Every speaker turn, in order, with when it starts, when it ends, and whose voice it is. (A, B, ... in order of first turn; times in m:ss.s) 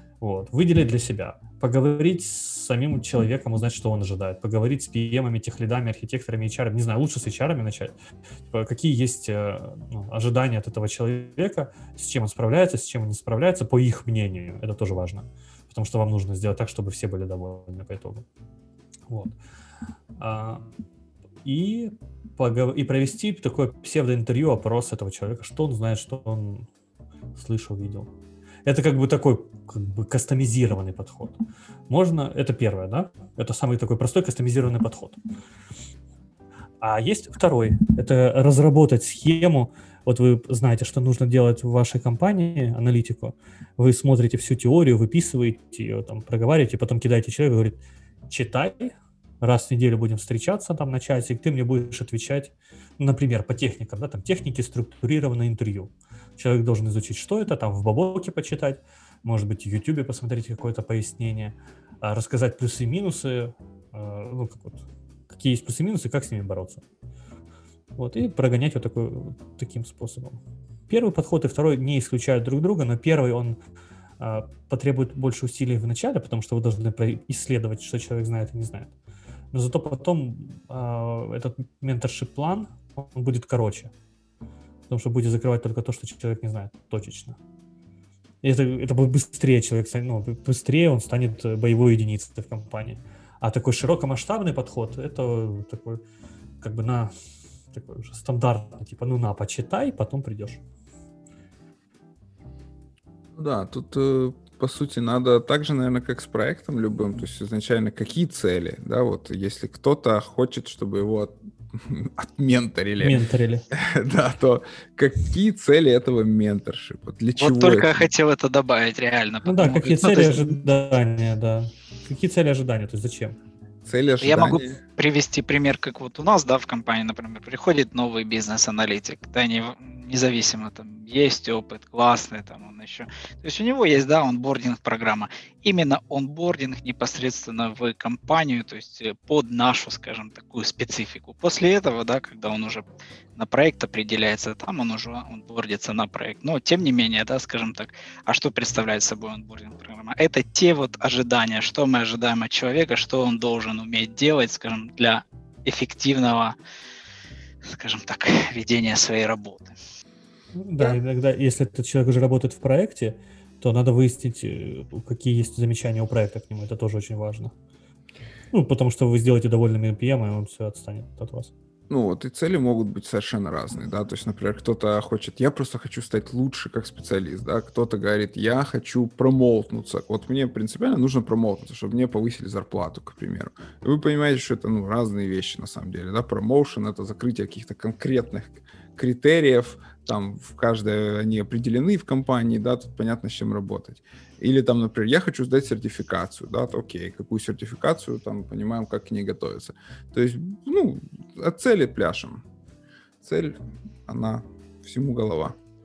0:00.2-0:07.9 A
0:08.5-0:18.2 A
0:19.1-0:19.4 A
0:20.2-0:20.7 A
0:21.4-0:26.7 A
0:27.3-0:28.1 A
0:28.6-0:35.2 A
0:36.8-1:06.8 A
1:08.0-1:13.6 A
1:14.2-1:18.9 A
1:19.5-1:23.9 A
1:24.9-1:27.4 A
1:28.4-1:36.0 A
1:36.6-1:37.1 A
1:37.7-1:40.6 A
1:43.4-1:53.2 B
1:53.0-1:53.6 A
1:53.7-1:58.1 B
1:57.4-2:00.5 C
1:59.4-2:03.4 A
2:03.8-2:04.7 B
2:04.2-2:36.6 C
2:37.6-2:39.7 C
2:40.5-2:47.5 A
2:48.5-2:51.5 A
2:51.9-3:22.4 B
3:23.2-3:25.6 B